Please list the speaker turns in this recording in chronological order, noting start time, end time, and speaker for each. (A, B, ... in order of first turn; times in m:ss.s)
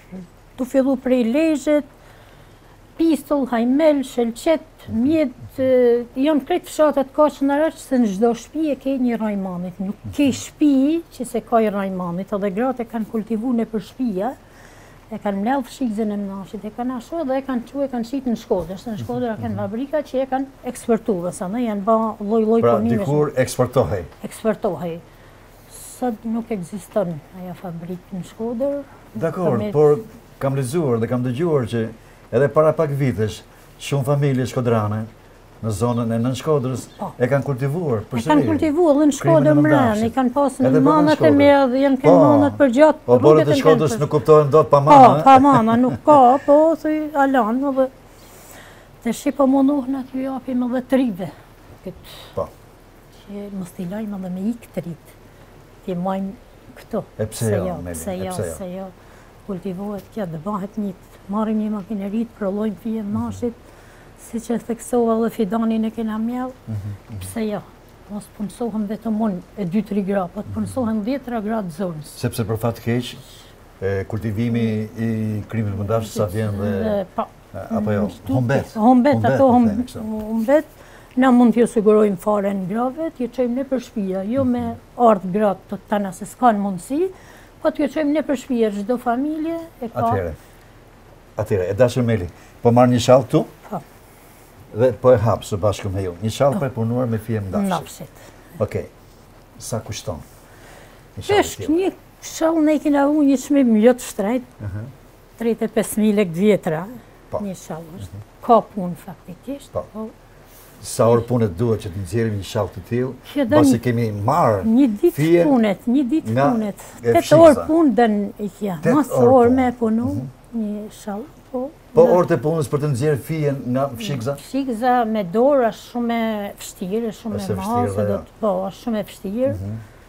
0:00.6-0:01.8 A
0:03.0-0:14.4 A
0:15.1-0:23.3 A
0:22.6-0:24.1 B
0:24.2-0:25.0 A
0:25.7-0:29.8 A
0:29.2-0:35.1 B
0:35.6-0:46.0 B
0:38.1-0:44.1 A
0:44.8-0:47.9 A
0:49.0-0:51.3 A
0:51.8-0:52.2 A
0:53.2-0:55.1 A
0:55.8-0:58.9 A
0:57.2-0:58.6 B
0:59.5-1:03.6 A
1:04.2-1:06.6 A
1:06.7-1:07.2 B
1:07.2-1:12.2 A
1:12.2-1:13.2 B
1:13.8-1:17.0 B
1:15.8-1:30.2 A
1:17.5-1:20.1 B
1:29.9-1:30.4 B
1:31.4-1:33.5 B
1:34.7-1:37.9 B
1:37.5-1:38.2 A
1:38.6-1:38.9 B
1:39.6-1:40.2 B
1:41.2-1:41.8 B
1:41.3-1:44.5 A
1:44.6-1:44.9 B
1:45.4-1:50.1 A
1:50.8-1:55.6 B
1:53.2-1:53.8 A
1:54.6-2:02.2 A
1:56.2-1:57.7 B
1:58.8-2:00.3 B
2:02.0-2:04.4 B
2:04.0-2:09.6 A
2:07.3-2:08.3 B
2:09.5-2:09.8 B